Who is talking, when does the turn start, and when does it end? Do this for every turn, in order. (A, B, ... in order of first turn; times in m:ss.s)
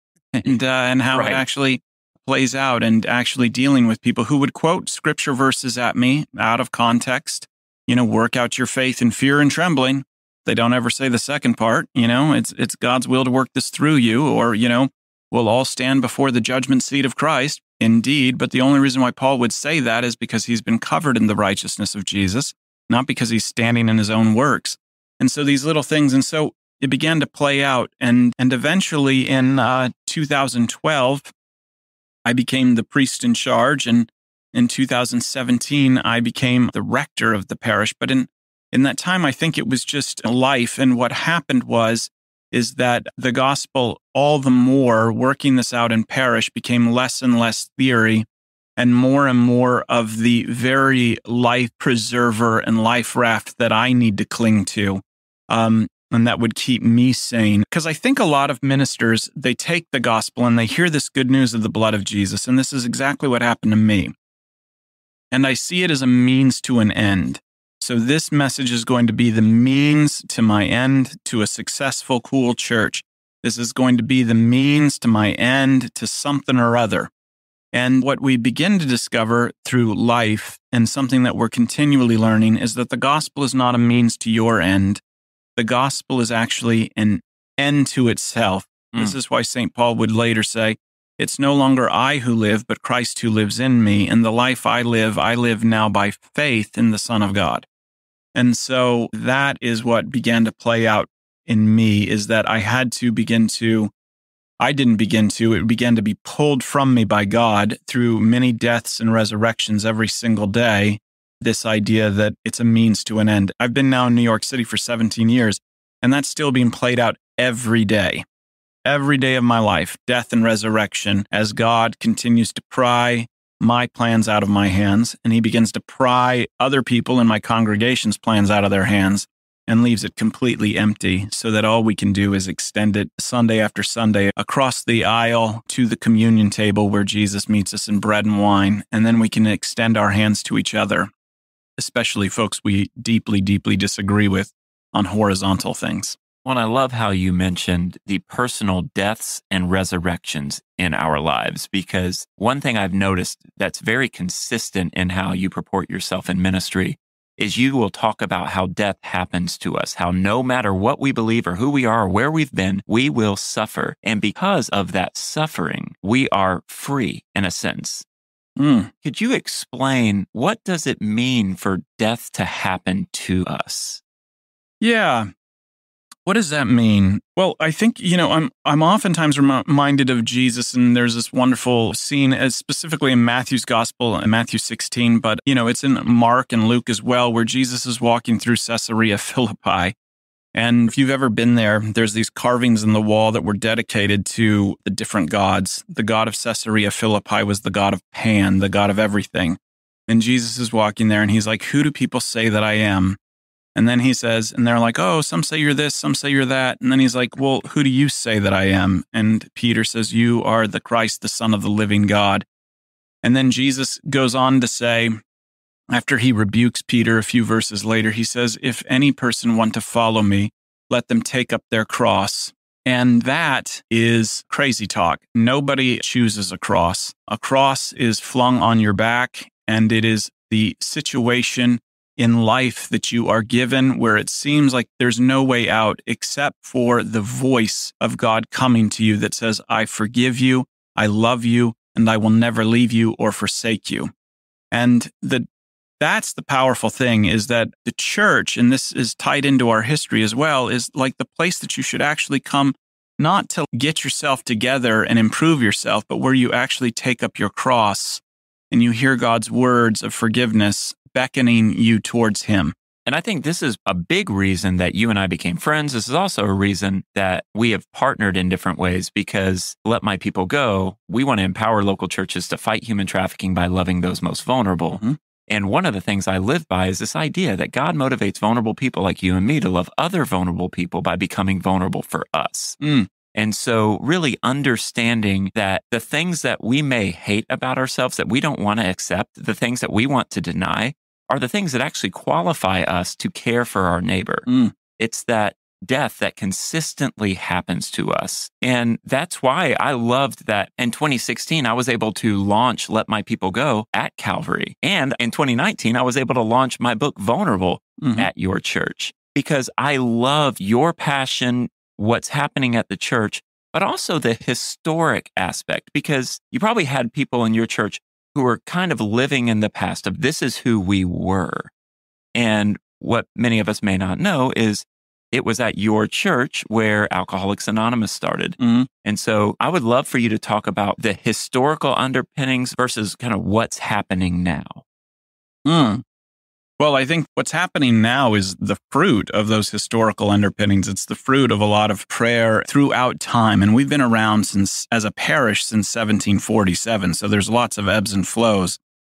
0:00.3-0:31.3 A
0:01.1-0:01.4 B
0:32.2-0:48.2 A
0:48.8-1:04.1 A
1:05.3-1:17.1 A
1:17.7-1:25.0 A
1:25.6-1:37.7 A
1:38.3-1:43.9 A
1:44.6-1:58.2 A
1:58.8-2:21.1 A
2:21.8-2:26.2 A
2:26.4-2:48.0 B
2:48.6-2:48.9 A
2:49.0-2:54.0 B
2:54.8-2:55.3 A
2:56.2-3:09.9 A
3:10.5-3:23.2 A
3:23.8-3:32.4 A
3:33.2-3:35.2 A
3:35.9-4:04.1 A
4:04.7-4:05.4 A
4:06.0-4:22.8 A
4:23.0-4:42.8 B
4:34.9-4:35.2 A
4:42.8-4:43.1 A
4:43.3-4:54.5 B
4:54.5-4:54.7 A
4:55.0-5:21.7 B
5:08.0-5:08.3 A
5:22.3-5:34.8 B
5:28.6-5:28.9 A
5:35.6-5:36.0 A
5:36.8-5:48.8 A